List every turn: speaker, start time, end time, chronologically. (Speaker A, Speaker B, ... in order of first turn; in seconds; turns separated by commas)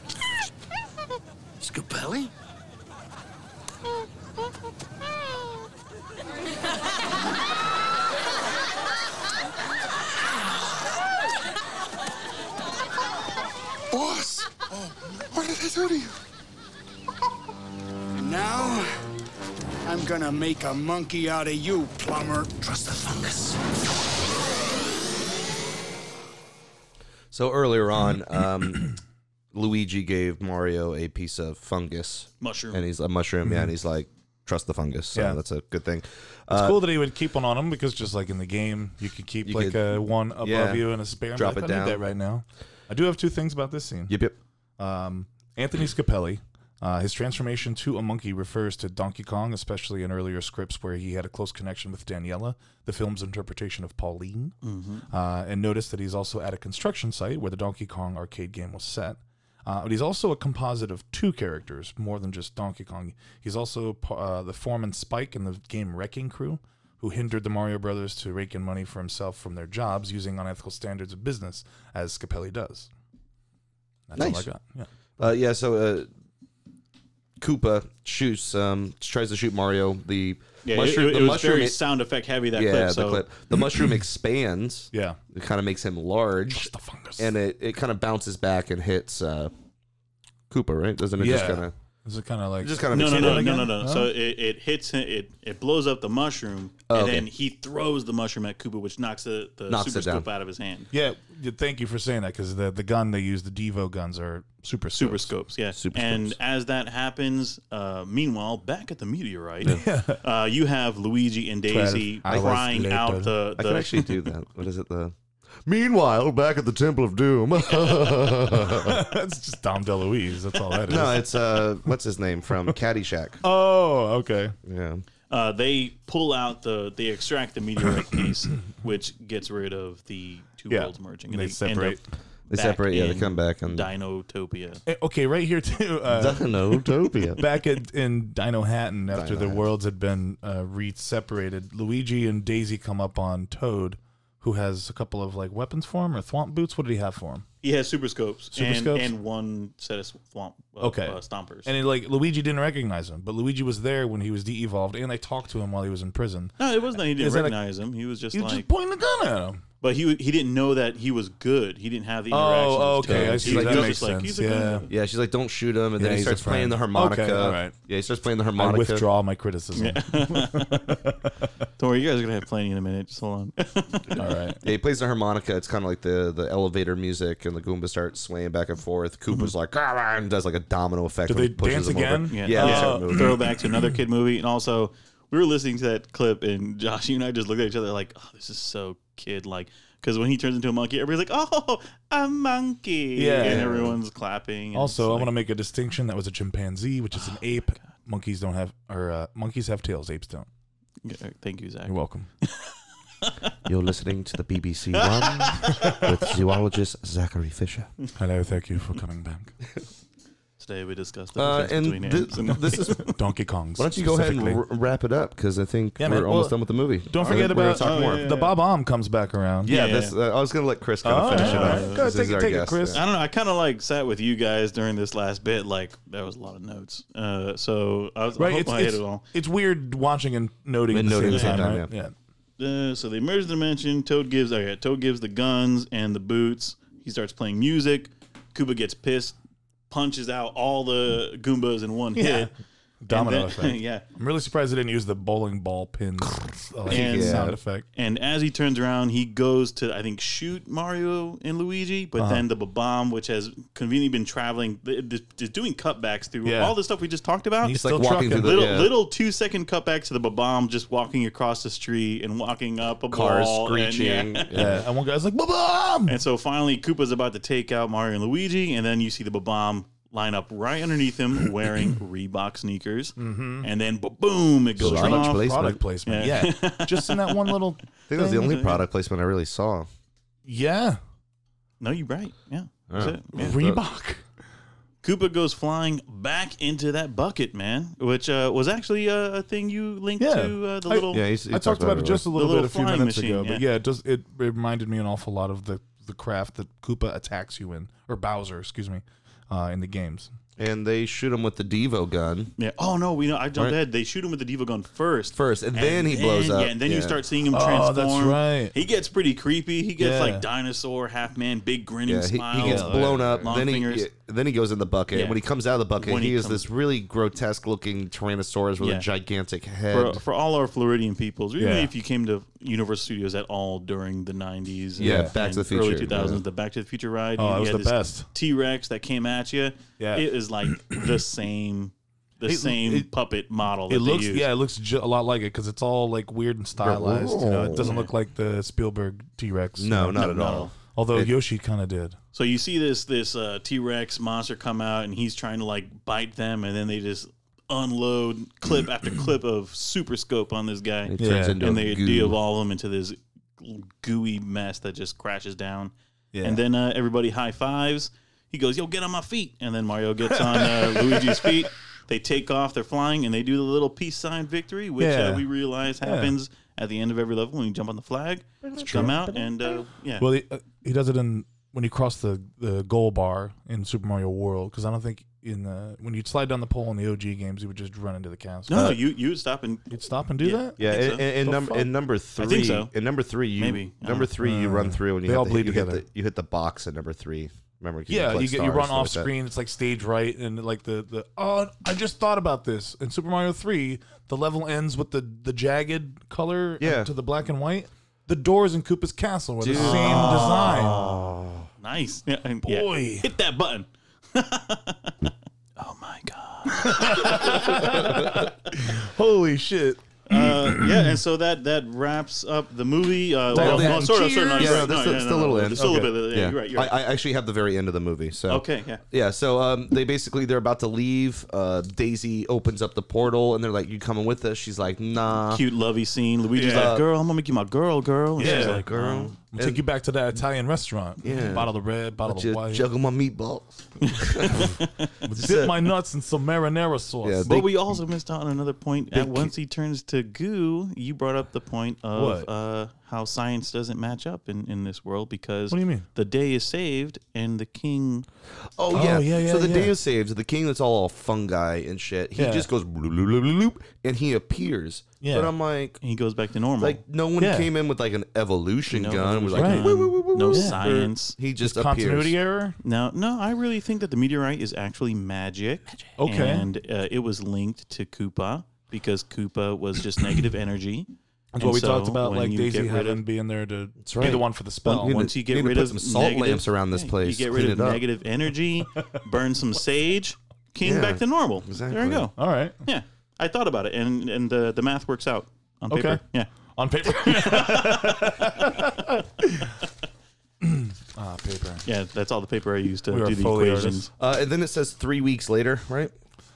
Speaker A: 1.6-2.3, Speaker A: 13.9-16.1, Speaker A: 18.1-18.9, Speaker A: 19.8-23.6, Speaker B: 27.3-28.9, Speaker B: 29.5-36.8, Speaker C: 32.4-32.8, Speaker D: 33.4-33.7, Speaker D: 35.1-35.4, Speaker D: 36.5-44.1, Speaker B: 39.4-42.0, Speaker B: 44.1-44.4, Speaker D: 44.8-54.5, Speaker C: 54.6-55.0, Speaker D: 55.1-72.9, Speaker D: 74.1-75.3, Speaker B: 74.2-74.5, Speaker B: 75.2-76.1, Speaker B: 77.4-81.8, Speaker C: 80.7-83.2, Speaker B: 82.5-89.5, Speaker D: 84.9-85.2, Speaker D: 86.5-87.3, Speaker B: 90.5-91.7, Speaker D: 91.2-94.1, Speaker B: 92.6-93.7, Speaker C: 92.9-100.9, Speaker B: 96.9-97.3, Speaker B: 99.7-100.3, Speaker D: 100.9-105.3, Speaker C: 104.9-114.1, Speaker B: 105.7-106.3, Speaker D: 109.7-110.2, Speaker D: 111.7-113.3, Speaker B: 112.3-112.7, Speaker B: 113.5-119.0, Speaker D: 118.7-121.6, Speaker B: 120.9-123.4, Speaker D: 123.4-124.5, Speaker B: 124.6-125.0, Speaker C: 125.3-134.8, Speaker D: 130.7-132.0, Speaker B: 132.5-133.9, Speaker D: 134.9-136.8, Speaker B: 136.1-137.4, Speaker D: 137.4-147.4, Speaker B: 139.1-139.7, Speaker C: 147.6-151.7, Speaker D: 148.5-149.1, Speaker D: 150.8-157.5, Speaker C: 156.6-158.7, Speaker D: 158.3-159.6, Speaker C: 159.8-164.9, Speaker D: 162.3-164.9, Speaker B: 163.0-164.1, Speaker B: 164.9-169.1, Speaker D: 166.0-167.7, Speaker D: 168.6-171.5, Speaker C: 169.7-171.0, Speaker C: 171.8-174.4, Speaker D: 174.2-174.6, Speaker B: 174.6-183.4, Speaker D: 181.3-183.9, Speaker C: 182.3-195.3, Speaker D: 193.2-193.9, Speaker B: 193.4-193.9, Speaker D: 194.7-200.5, Speaker C: 197.1-197.8, Speaker C: 201.0-203.3, Speaker D: 201.8-202.3, Speaker B: 203.7-207.9, Speaker C: 204.9-206.1, Speaker D: 208.2-209.5, Speaker C: 210.6-213.1, Speaker B: 211.3-213.1, Speaker D: 213.0-214.6, Speaker B: 213.8-218.3, Speaker D: 216.0-219.7, Speaker C: 217.2-218.6, Speaker B: 219.6-223.0, Speaker C: 219.7-220.1, Speaker D: 221.0-223.0, Speaker C: 221.2-222.0, Speaker C: 222.9-229.2, Speaker D: 228.4-232.1, Speaker B: 230.9-231.9, Speaker C: 231.3-231.6, Speaker C: 232.6-239.3, Speaker C: 239.9-242.5, Speaker D: 242.2-242.5, Speaker D: 243.0-247.8, Speaker C: 243.1-244.0, Speaker B: 246.8-247.6, Speaker C: 246.9-264.7, Speaker D: 252.2-252.4, Speaker D: 256.4-256.7, Speaker D: 257.6-258.5, Speaker B: 257.7-258.9, Speaker B: 263.1-264.8, Speaker D: 264.5-266.2, Speaker C: 266.1-275.5, Speaker D: 273.2-273.7, Speaker B: 274.8-275.8, Speaker D: 274.8-278.5, Speaker C: 276.1-277.6, Speaker B: 278.1-279.9, Speaker C: 278.3-278.8, Speaker D: 280.4-281.0, Speaker C: 281.8-283.5, Speaker B: 282.9-283.8, Speaker D: 283.4-284.2, Speaker C: 285.0-291.2, Speaker D: 290.2-300.3, Speaker B: 291.1-292.2, Speaker C: 292.3-293.6, Speaker B: 300.6-302.5, Speaker C: 302.6-314.1, Speaker B: 305.3-307.2, Speaker D: 307.5-308.7, Speaker D: 310.0-310.4, Speaker B: 312.1-320.2, Speaker D: 312.6-313.4, Speaker C: 315.1-315.4, Speaker C: 316.0-316.6, Speaker C: 318.8-319.1, Speaker C: 319.9-334.5, Speaker D: 321.6-321.9, Speaker B: 325.0-326.4, Speaker D: 325.0-325.4, Speaker D: 327.4-328.3, Speaker D: 330.0-330.2, Speaker D: 332.4-333.1, Speaker D: 333.9-342.2, Speaker B: 336.8-337.9, Speaker C: 337.7-338.1, Speaker B: 339.8-341.3, Speaker C: 340.2-340.7, Speaker C: 342.3-370.3, Speaker B: 351.1-352.4, Speaker D: 351.2-351.6, Speaker D: 356.3-356.6, Speaker D: 360.4-361.5, Speaker D: 365.0-365.4, Speaker D: 366.0-366.3, Speaker B: 368.6-369.8, Speaker D: 368.8-369.2, Speaker D: 370.2-379.0, Speaker C: 378.7-381.2, Speaker B: 378.7-379.0, Speaker D: 379.9-381.9, Speaker B: 380.8-389.3, Speaker C: 382.4-382.9, Speaker C: 383.6-384.3, Speaker D: 384.4-386.0, Speaker D: 388.1-401.0, Speaker B: 396.8-397.1, Speaker B: 399.6-401.7, Speaker C: 399.7-401.2, Speaker C: 401.8-408.1, Speaker D: 402.6-403.3, Speaker D: 406.7-411.1, Speaker B: 407.9-408.4, Speaker C: 410.3-416.9, Speaker D: 413.5-415.0, Speaker B: 413.5-425.6, Speaker D: 415.8-416.1, Speaker C: 418.5-419.0, Speaker C: 425.5-429.3, Speaker B: 426.6-427.1, Speaker B: 428.4-429.8, Speaker D: 428.4-428.8, Speaker D: 429.5-432.9, Speaker B: 431.2-434.8, Speaker C: 434.0-435.1, Speaker D: 435.2-437.6, Speaker B: 435.3-435.9, Speaker B: 437.2-437.8, Speaker C: 437.4-448.3, Speaker B: 439.1-439.5, Speaker D: 442.1-442.5, Speaker D: 445.7-446.1, Speaker B: 448.8-456.0, Speaker D: 448.9-449.9, Speaker D: 452.4-452.7, Speaker D: 455.2-455.5, Speaker C: 456.0-457.0, Speaker B: 456.8-462.4, Speaker C: 458.9-461.4, Speaker D: 459.5-459.9, Speaker D: 460.5-460.8, Speaker D: 461.6-462.8, Speaker C: 462.8-473.2, Speaker D: 466.2-466.6, Speaker D: 471.5-475.2, Speaker B: 474.0-478.0, Speaker C: 474.9-486.5, Speaker B: 480.8-482.3, Speaker D: 482.4-482.8, Speaker D: 485.9-486.2, Speaker D: 486.7-489.8, Speaker C: 487.1-488.5, Speaker D: 490.6-491.9, Speaker C: 491.9-494.1, Speaker D: 493.1-494.1, Speaker B: 494.2-496.1